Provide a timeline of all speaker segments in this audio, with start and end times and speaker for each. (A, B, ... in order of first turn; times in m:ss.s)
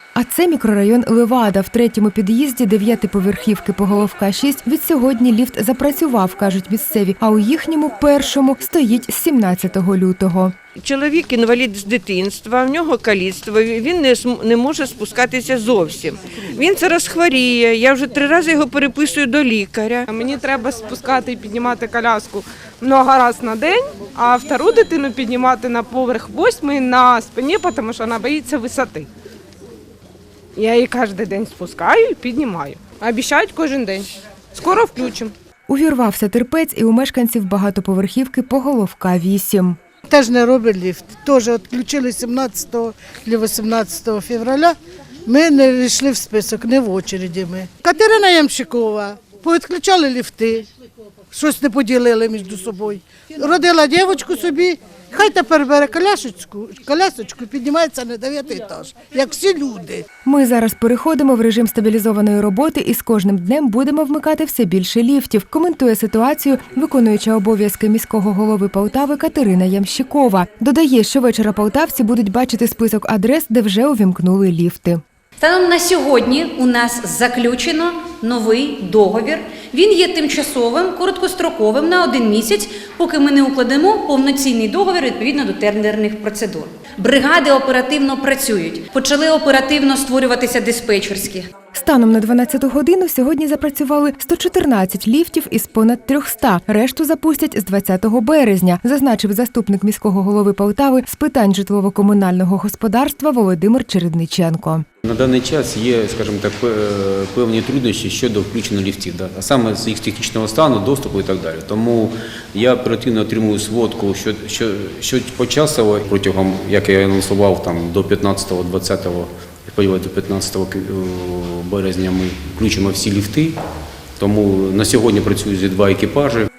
0:00.2-0:10.5 A
0:10.8-0:20.0 B
0:20.1-0:29.1 C
0:30.6-0:35.3 C
0:35.7-0:39.8 A
0:40.1-0:44.7 D
0:45.3-0:50.6 D
0:51.3-1:00.0 D
1:00.2-1:15.0 A
1:15.4-1:31.5 E
1:31.7-1:44.8 A
1:45.0-2:03.5 F
2:04.2-2:06.5 F